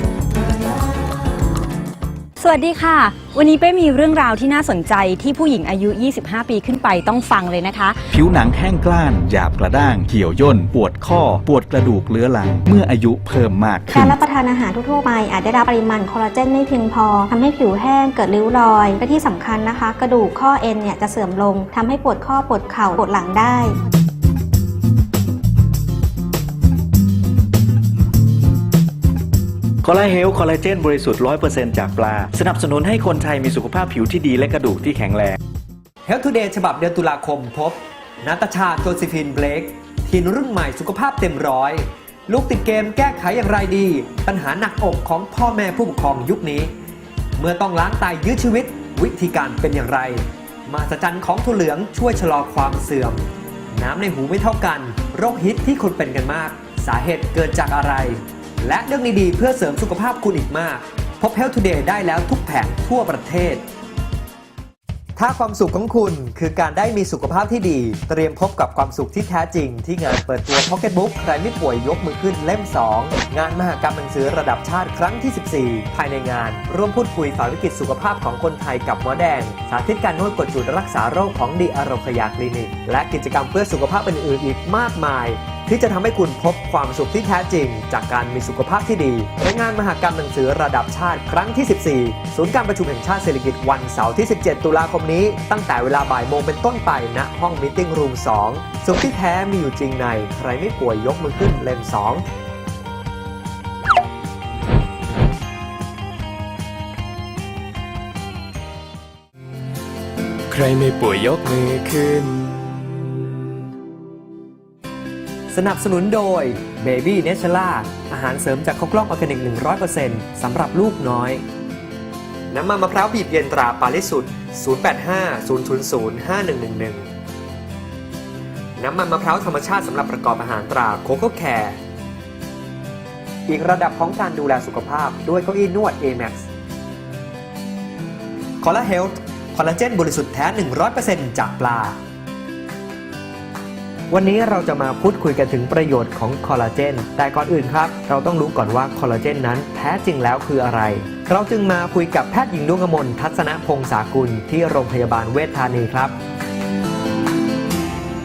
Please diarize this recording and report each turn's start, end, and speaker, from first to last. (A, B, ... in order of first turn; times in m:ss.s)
0:02.4-0:08.0 A
0:08.1-0:14.2 B
0:13.9-0:23.8 C
0:29.8-0:35.3 D
0:36.0-0:46.7 E
0:47.4-1:03.7 E
1:05.2-1:42.2 E
1:50.5-1:52.5 F
1:55.5-2:01.4 E
2:02.5-2:07.1 E
2:08.8-2:11.8 E
2:13.5-2:16.5 E
2:18.6-2:22.0 E
2:24.1-2:36.2 E